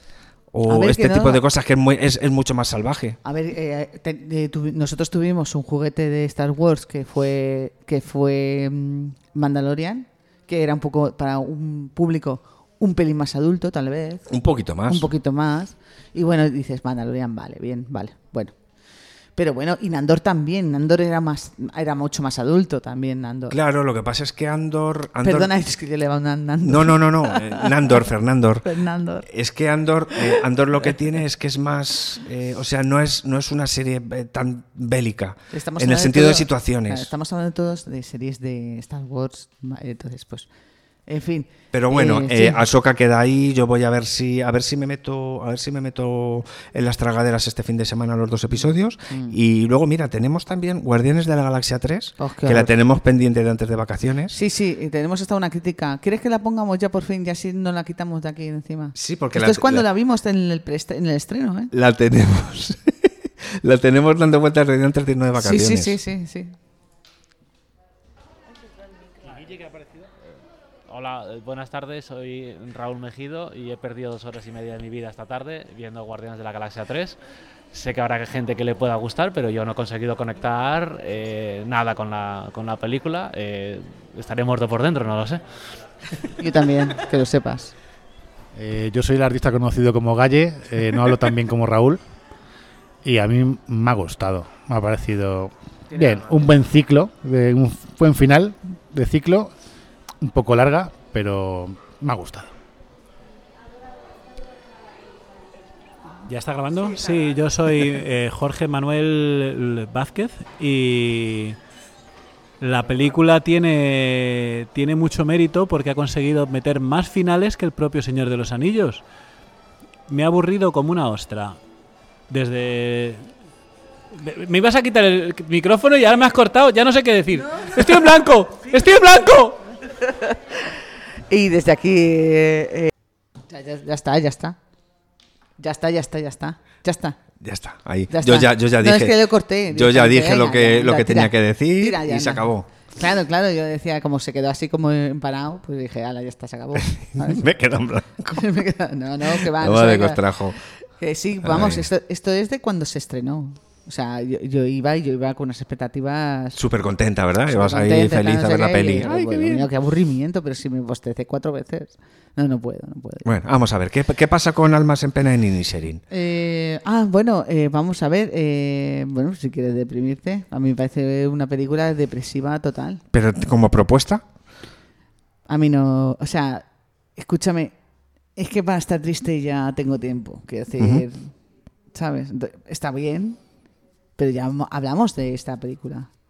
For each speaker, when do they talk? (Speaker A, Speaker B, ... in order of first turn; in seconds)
Speaker A: 0.5-3.2, 14.3-15.1, 23.5-25.5, 26.6-28.7, 29.2-37.1, 41.7-54.3, 59.0-59.9, 61.7-66.0, 137.4-139.2, 139.7-142.7, 146.8-148.4, 149.3-150.6, 151.4-151.8, 156.6-159.7, 163.2-166.0, 173.1-174.2, 180.8-181.0
Speaker B: 0.7-1.4, 3.2-14.3, 14.9-18.6, 19.4-23.6, 25.2-28.1, 28.6-29.3, 35.5-40.5, 41.1-42.6, 49.1-49.4, 52.2-52.7, 54.3-61.7, 65.4-66.5, 86.4-87.7, 131.3-132.9, 133.5-134.6, 135.6-137.2, 138.1-147.4, 148.3-150.2, 151.0-156.6, 157.5-163.3, 166.1-173.0, 175.5-176.7, 177.2-177.8, 178.4-181.3, 181.9-183.4, 184.2-186.1
Speaker C: 70.9-77.2, 77.7-85.4
Speaker D: 88.5-92.0, 93.0-99.5, 100.2-102.5
Speaker E: 106.3-111.6, 112.6-119.0, 120.1-121.6, 122.3-123.3, 124.2-129.6